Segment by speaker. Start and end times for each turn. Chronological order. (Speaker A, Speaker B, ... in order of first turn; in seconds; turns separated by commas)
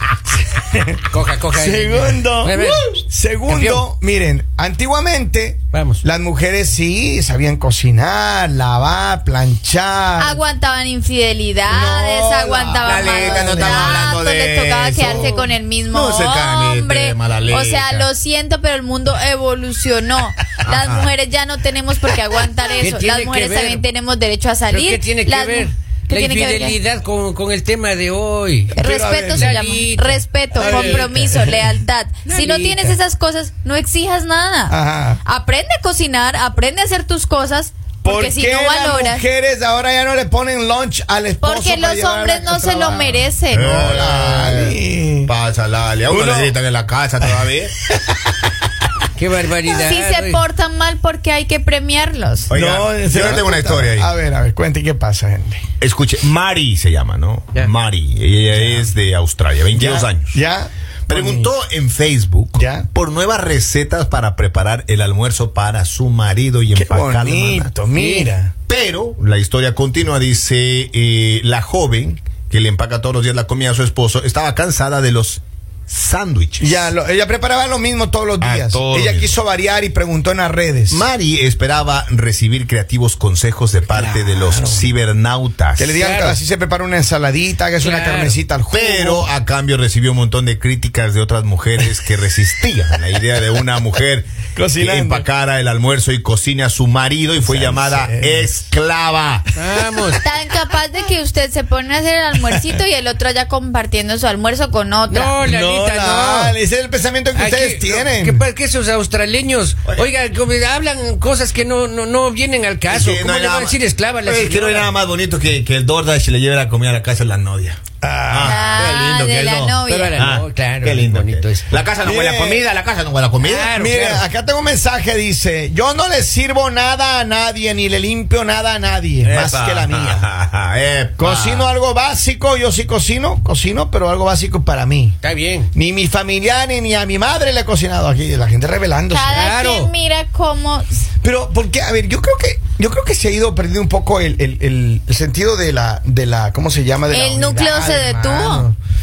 Speaker A: 0.5-10.4, Speaker B: 1.1-2.9, Speaker B: 3.5-3.9, Speaker B: 5.7-6.0, Speaker C: 10.2-26.8, Speaker D: 11.7-12.1, Speaker A: 11.7-14.1, Speaker D: 12.8-18.1, Speaker A: 15.1-15.3, Speaker D: 20.6-21.1, Speaker B: 22.8-23.8, Speaker B: 24.7-31.2, Speaker A: 28.8-29.6, Speaker C: 28.8-39.2, Speaker A: 30.6-31.7, Speaker B: 32.3-33.0, Speaker A: 34.7-35.2, Speaker A: 38.0-45.3, Speaker C: 41.4-43.8, Speaker D: 43.5-47.8, Speaker A: 46.1-46.6, Speaker A: 48.0-48.3, Speaker B: 49.2-50.4, Speaker C: 49.7-52.5, Speaker D: 52.5-54.1, Speaker A: 52.5-55.6, Speaker D: 55.8-60.4, Speaker A: 58.5-58.9, Speaker A: 59.8-61.5, Speaker D: 61.1-67.7, Speaker A: 62.5-62.9, Speaker A: 66.7-68.5, Speaker B: 67.9-68.3, Speaker D: 68.7-76.9, Speaker A: 76.6-81.1, Speaker D: 78.4-79.4, Speaker D: 80.9-85.9, Speaker A: 83.9-84.9, Speaker A: 85.8-89.3, Speaker B: 86.0-86.4, Speaker B: 87.8-88.4, Speaker D: 88.7-99.5, Speaker A: 94.5-95.3, Speaker A: 97.4-98.5, Speaker B: 99.5-100.2, Speaker C: 100.2-105.4, Speaker B: 105.1-106.6, Speaker A: 105.4-108.5, Speaker B: 107.3-114.9, Speaker D: 112.9-123.7, Speaker A: 118.0-118.9, Speaker C: 118.4-120.2, Speaker B: 119.9-121.8, Speaker A: 122.0-122.6, Speaker B: 123.4-124.2, Speaker A: 123.7-130.3, Speaker D: 129.2-131.7, Speaker A: 131.2-135.2, Speaker B: 135.2-135.7, Speaker A: 135.7-139.4, Speaker C: 139.1-141.0, Speaker B: 139.3-139.9, Speaker A: 141.2-148.7, Speaker C: 147.1-148.7